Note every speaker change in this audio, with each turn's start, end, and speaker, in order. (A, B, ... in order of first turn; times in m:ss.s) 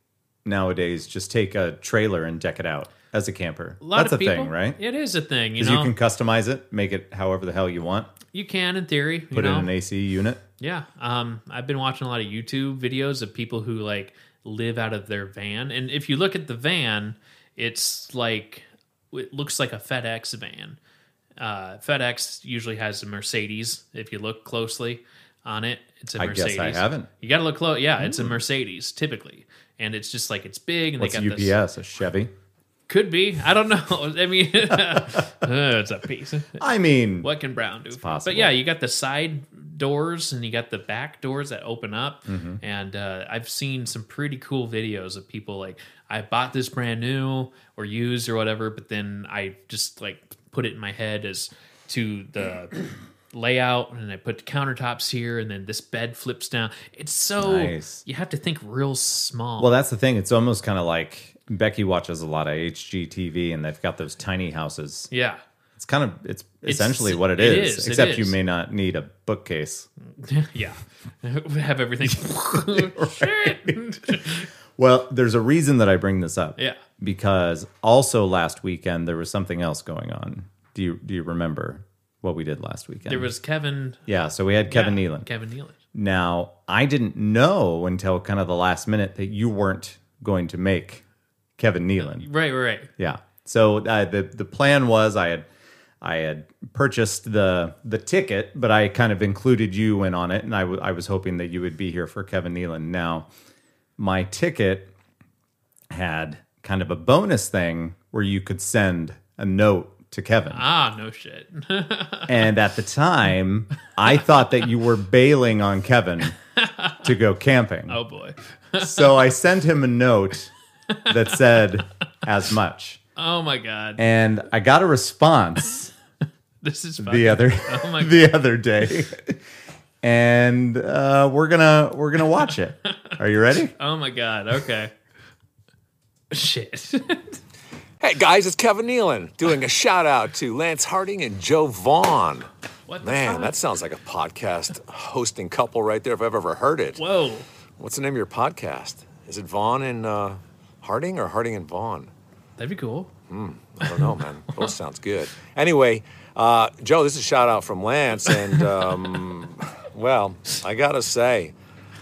0:00.4-0:04.8 A
0:03.8-0:05.9 B
0:05.6-0:08.1 A
0:08.3-0:09.7 B
0:09.3-0:10.4 A
0:10.6-0:20.8 B
0:21.4-0:31.6 B
0:26.2-0:27.1 A
0:28.0-0:28.4 A
0:31.0-0:32.3 A
0:32.9-0:36.6 B
0:34.7-0:35.2 A
0:36.6-0:37.3 A
0:37.2-0:59.7 B
0:38.0-0:38.6 A
0:42.3-0:42.6 A
0:57.4-0:58.0 A
0:59.6-1:05.1 A
1:05.1-1:05.4 B
1:05.8-1:09.9 A
1:06.6-1:08.4 B
1:10.2-1:14.5 B
1:12.5-1:23.3 A
1:23.0-1:24.0 B
1:24.1-1:25.3 A
1:24.7-1:25.7 B
1:25.9-1:31.0 A
1:31.6-1:32.3 A
1:32.0-1:32.9 B
1:33.0-1:35.4 A
1:36.0-1:43.3 A
1:44.0-1:44.9 A
1:45.9-1:50.6 A
1:50.5-1:52.4 B
1:52.3-1:56.4 A
1:56.6-1:57.0 B
1:57.0-1:58.0 A
1:57.9-1:59.2 B
1:58.8-2:00.5 A
2:01.1-2:03.0 A
2:03.2-2:04.0 B
2:04.0-2:05.9 A
2:06.6-2:08.3 B
2:07.0-2:09.4 A
2:10.0-2:13.7 A
2:12.8-2:13.2 B
2:13.8-2:14.9 B
2:16.3-2:17.4 B
2:18.0-2:22.5 C
2:22.9-2:23.5 B
2:23.0-2:27.0 C
2:27.0-2:27.4 B
2:27.8-2:32.1 C
2:32.6-2:33.1 B
2:33.3-2:41.5 C